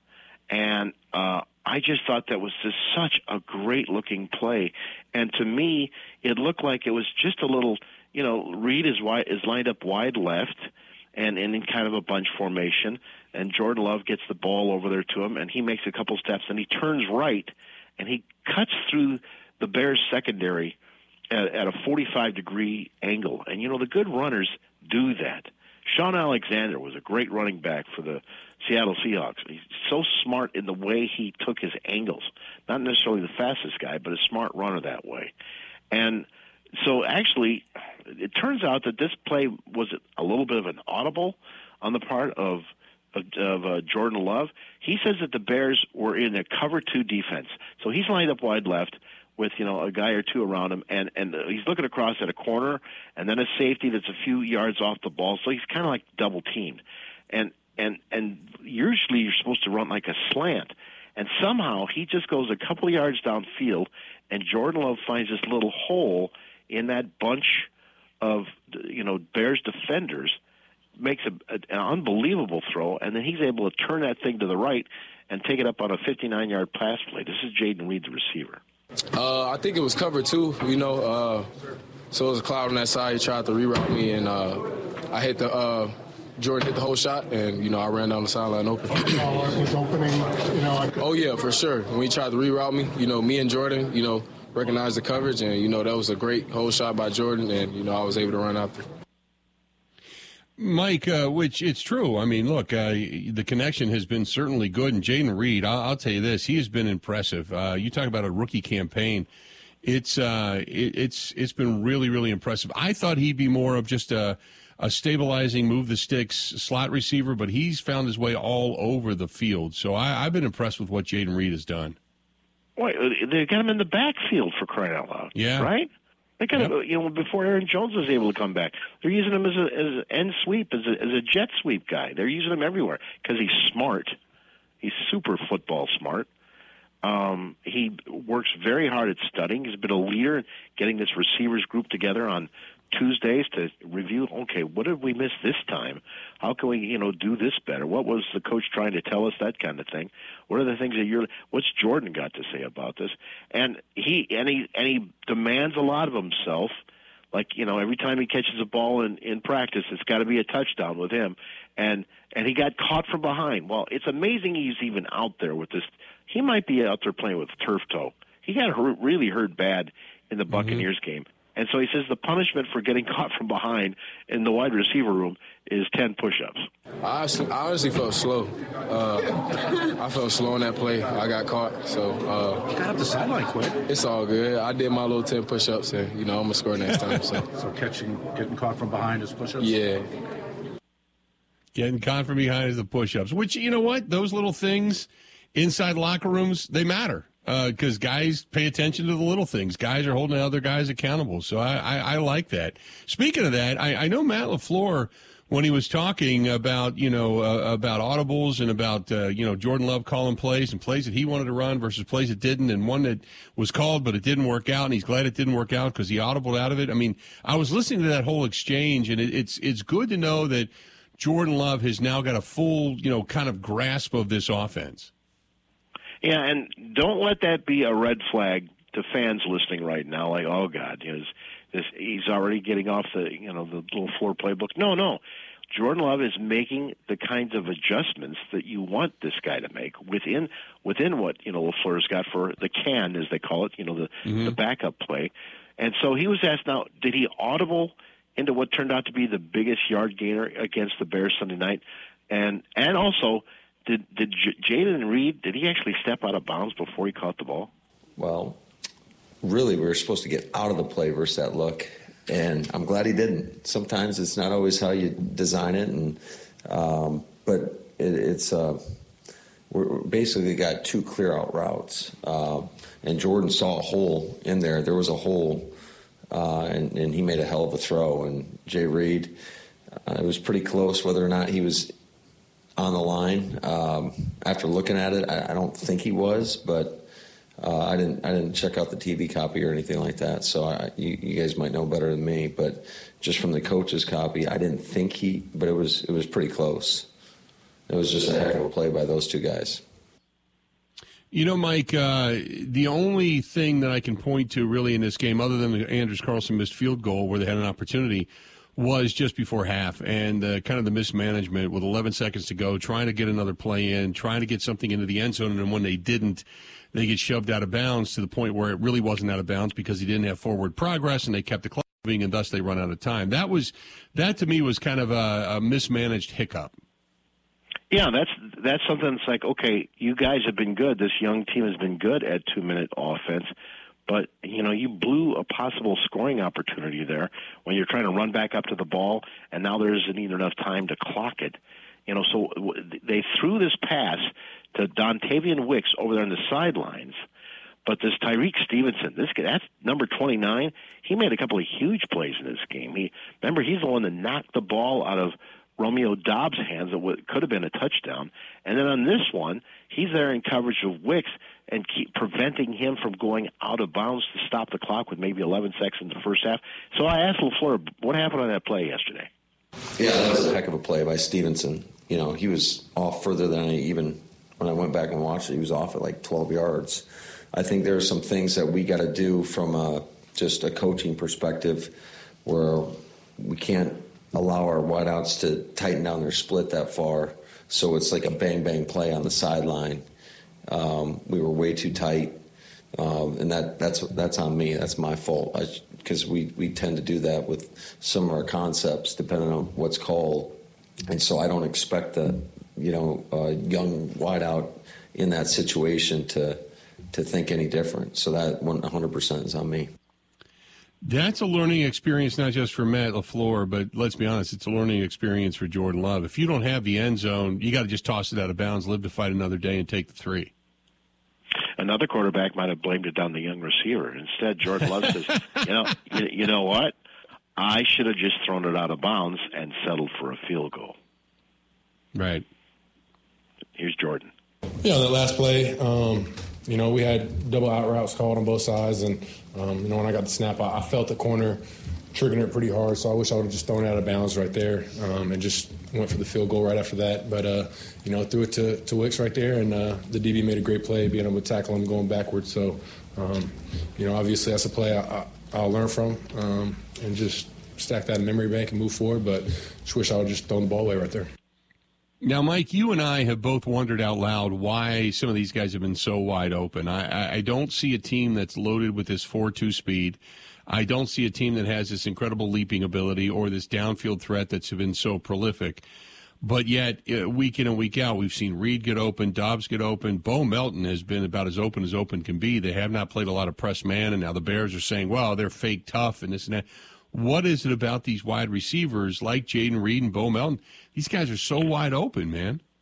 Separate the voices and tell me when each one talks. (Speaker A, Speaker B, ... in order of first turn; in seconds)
Speaker A: 0.5-20.8, 21.3-35.3, 35.9-67.7, 68.2-70.4, 71.0-78.6, 122.8-134.2, 134.8-136.3, 137.0-156.8, 157.3-176.6, 226.2-257.7, 327.9-333.5, 334.1-347.2, 347.9-369.3, 421.8-426.9, 427.6-431.0, 433.8-434.3
Speaker B: 79.1-81.5, 82.1-89.3, 91.0-98.9, 177.0-182.7, 183.9-187.5, 189.6-190.1
Speaker C: 89.1-91.0, 434.8-441.6, 442.1-461.3
Speaker D: 100.6-109.3, 109.8-122.0, 125.3-125.7, 170.5-170.9, 191.8-225.1, 244.2-244.6, 301.3-326.8, 411.0-420.5, 432.1-432.5, 462.2-475.9, 476.4-492.6
Speaker E: 182.7-183.8, 187.4-189.8
Speaker F: 258.2-258.6, 259.4-269.0, 269.7-275.8, 276.3-279.4, 280.1-281.9, 282.8-287.1, 287.6-297.1, 297.9-299.8, 370.0-390.1, 390.7-392.4, 392.9-409.9